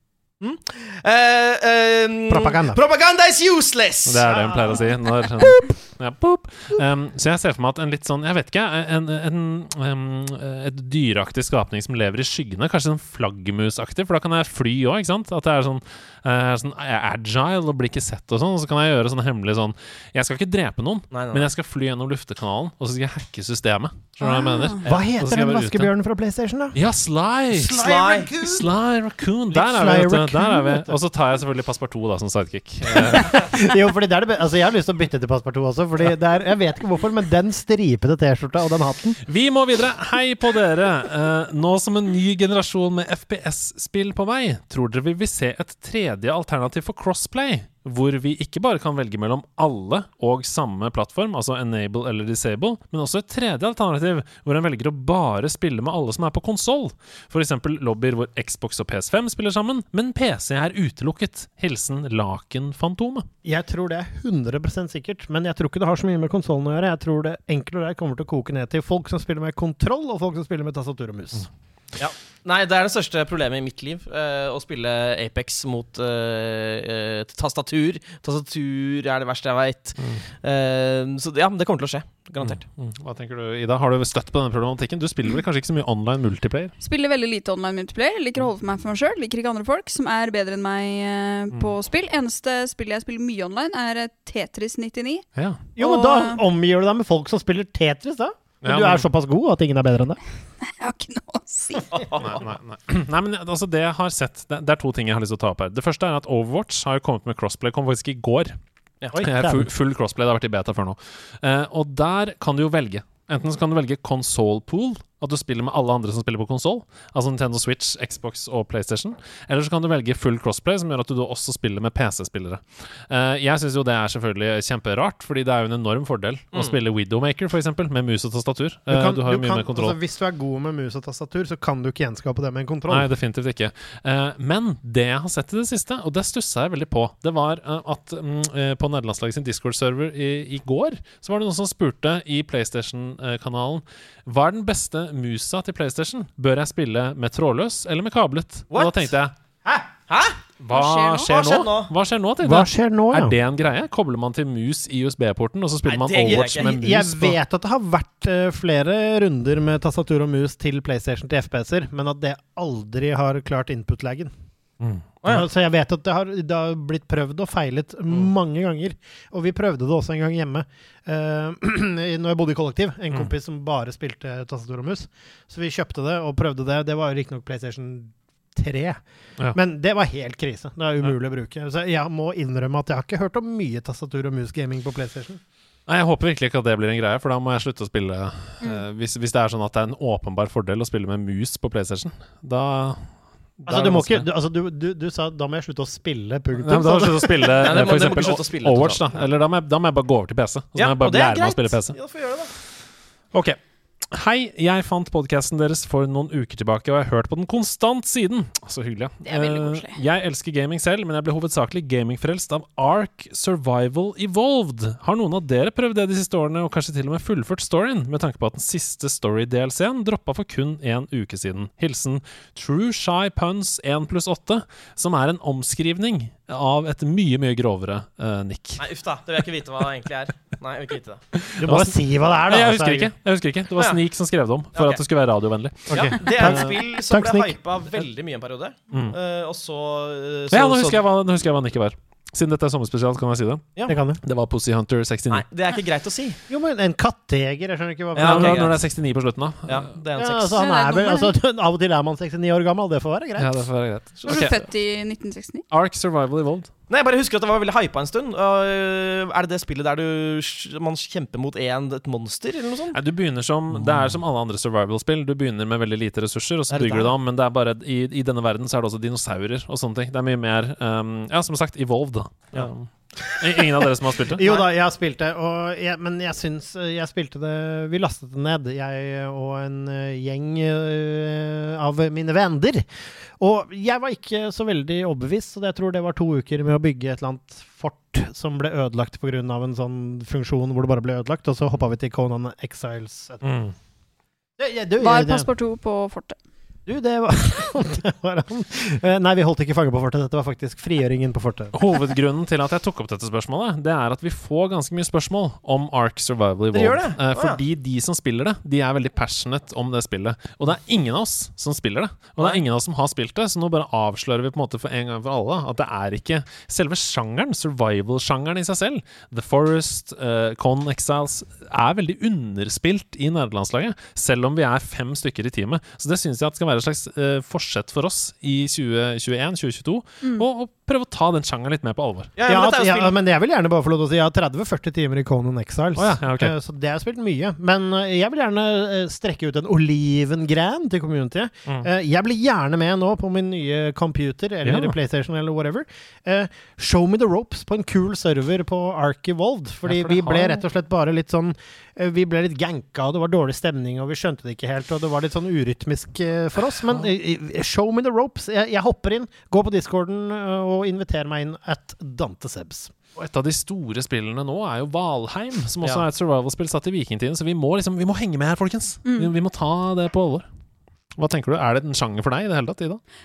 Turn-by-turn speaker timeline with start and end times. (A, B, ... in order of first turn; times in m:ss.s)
0:00.4-0:04.6 A
0:02.3-0:02.8 B
0:04.0-0:25.9 C
0:04.2-0:04.9 B
0:21.1-0:21.5 A
0:24.2-0:24.8 D
0:24.8-0:26.8 B
0:26.7-0:27.8 C
0:27.5-0:28.7 B
0:27.8-0:28.3 A
0:28.4-0:33.5 C
0:29.5-0:31.0 B
0:32.8-0:39.2 B
0:39.2-1:03.3 C
1:03.4-1:11.5 B
1:12.0-1:22.6 A
1:20.0-1:20.2 C
1:22.4-1:26.7 C
1:26.8-1:35.3 D
1:35.4-1:35.6 C
1:35.8-1:40.2 B
1:35.8-1:36.4 D
1:38.6-1:39.0 C
1:40.6-1:42.0 D
1:41.9-1:42.4 A
1:42.2-1:48.6 C
1:49.1-1:49.7 B
1:49.1-2:10.0 C
2:08.9-2:13.1 B
2:12.9-2:29.3 C
2:28.7-2:29.1 A
2:30.1-2:30.4 A
2:30.6-2:37.4 C
2:30.7-2:31.3 D
2:31.3-2:31.9 A
2:32.4-2:33.4 B
2:35.8-2:36.7 A
2:36.2-2:44.3 B
2:44.8-2:45.1 C
2:45.2-2:59.0 B
2:59.5-3:05.4 B
3:05.9-3:14.3 C
3:13.7-3:17.6 B
3:16.6-3:22.0 C
3:17.6-3:19.1 A
3:20.8-3:22.5 A
3:23.3-3:23.6 C
3:24.1-3:48.8 C
3:29.2-3:30.0 D
3:48.8-3:51.2 A
3:51.4-3:56.7 C
3:51.6-3:53.1 B
3:54.7-3:55.0 A
3:55.9-3:57.6 B
3:55.9-4:01.0 A
3:58.9-3:59.2 C
4:00.5-4:05.4 C
4:03.8-4:04.2 B
4:05.3-4:06.4 A
4:06.5-4:08.7 B
4:08.1-4:08.8 A
4:08.2-4:09.9 C
4:09.7-4:10.5 A
4:10.2-4:13.7 B
4:10.6-4:11.3 D
4:13.4-4:14.6 C
4:14.2-4:14.6 A
4:14.3-4:15.6 D
4:15.7-4:16.7 C
4:16.9-4:23.0 A
4:22.9-4:34.5 C
4:26.7-4:27.1 A
4:33.3-4:42.9 B
4:43.4-4:53.4 B
4:53.4-4:53.7 C
4:54.6-4:55.5 B
4:55.0-4:56.4 D
4:56.8-5:01.8 B
5:01.7-5:32.3 C
5:06.7-5:07.6 A
5:32.4-5:33.1 A
5:32.5-6:02.9 B
5:36.0-5:36.5 C
5:44.6-5:45.0 C
5:49.8-5:50.6 C
6:03.2-6:10.4 C
6:09.0-6:09.3 D
6:11.2-6:13.0 C